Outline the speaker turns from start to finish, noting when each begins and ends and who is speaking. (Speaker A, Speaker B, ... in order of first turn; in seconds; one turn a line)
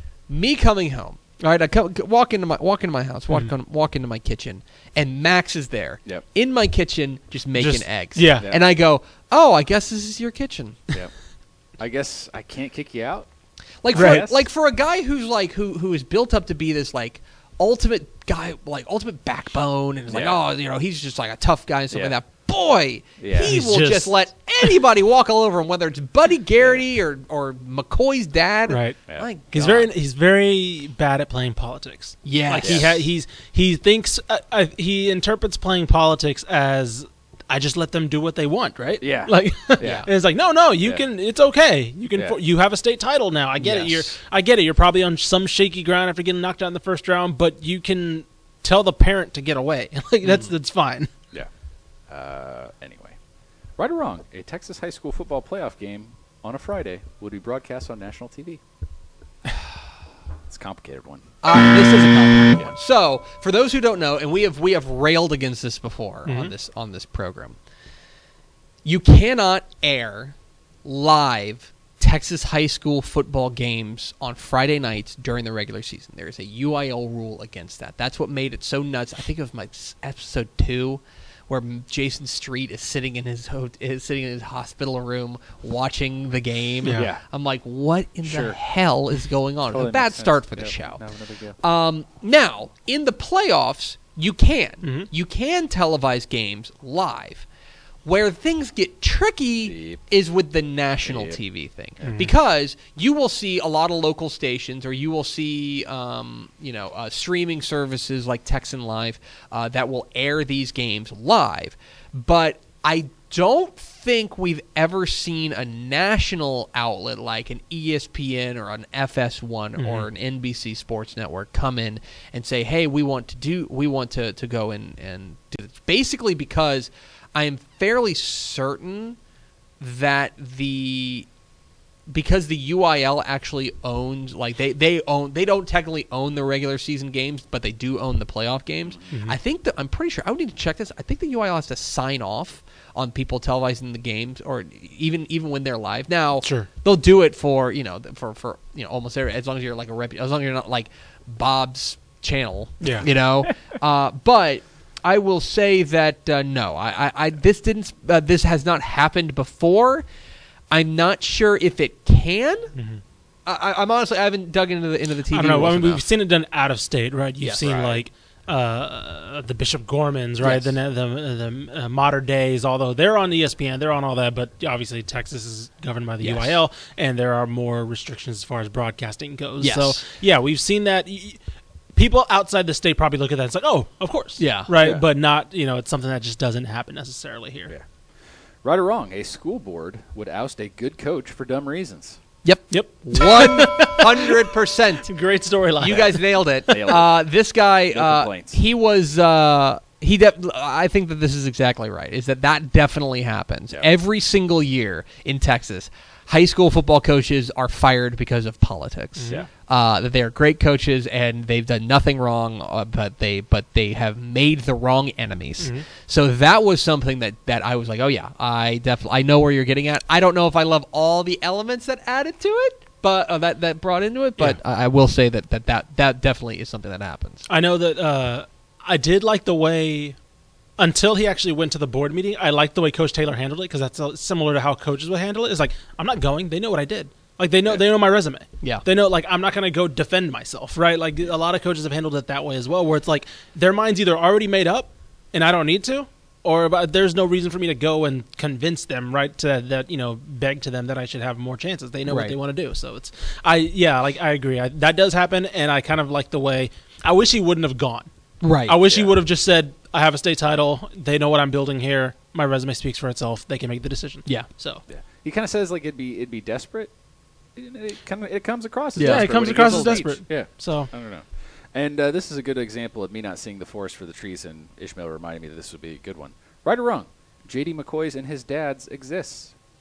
Speaker A: 0.3-10.8
Speaker B: 7.5-8.5
Speaker C: 8.4-8.7
Speaker C: 11.8-13.3
Speaker A: 13.8-29.9
Speaker C: 13.9-14.5
Speaker B: 13.9-14.3
Speaker C: 20.1-20.4
Speaker C: 21.9-22.2
Speaker C: 23.2-23.6
Speaker B: 23.4-24.7
Speaker C: 26.6-26.9
Speaker B: 28.7-29.0
Speaker B: 29.5-51.1
Speaker A: 32.2-32.9
Speaker C: 32.6-33.0
Speaker C: 39.0-40.1
Speaker A: 39.8-40.1
Speaker C: 42.1-42.4
Speaker C: 43.6-44.0
Speaker C: 52.1-53.2
Speaker C: 53.8-58.6
Speaker C: 60.5-61.3
Speaker A: 61.4-67.6
Speaker B: 66.3-66.5
Speaker A: 68.8-91.0
Speaker B: 86.8-87.1
Speaker C: 86.9-87.2
Speaker C: 88.2-88.6
Speaker C: 89.7-91.6
Speaker A: 91.6-97.5
Speaker B: 94.8-95.1
Speaker A: 98.0-129.2
Speaker C: 99.7-100.0
Speaker C: 101.1-101.4
Speaker B: 102.0-102.3
Speaker B: 119.8-120.1
Speaker A: 129.8-131.3
Speaker A: 132.1-160.1
Speaker B: 139.1-139.4
Speaker B: 146.4-146.7
Speaker B: 152.8-153.1
Speaker A: 160.7-162.7
Speaker B: 162.8-163.0
Speaker A: 163.5-166.0
Speaker B: 165.3-181.4
Speaker A: 167.4-167.7
Speaker C: 167.5-168.0
Speaker A: 170.4-170.7
Speaker A: 176.2-176.6
Speaker A: 179.6-180.0
Speaker B: 181.9-187.7
Speaker A: 184.4-184.7
Speaker C: 184.8-185.0
Speaker C: 188.6-192.2
Speaker A: 192.4-195.1
Speaker B: 192.7-194.5
Speaker B: 195.1-196.9
Speaker A: 195.8-227.5
Speaker C: 196.7-197.2
Speaker C: 197.9-198.6
Speaker B: 209.2-209.5
Speaker B: 215.6-215.9
Speaker B: 227.5-230.2
Speaker B: 230.8-258.1
Speaker A: 252.1-252.3
Speaker A: 258.4-258.8
Speaker B: 258.7-264.8
Speaker C: 258.8-259.1
Speaker C: 264.9-266.9
Speaker C: 267.6-279.5
Speaker A: 269.0-270.0
Speaker B: 269.0-270.9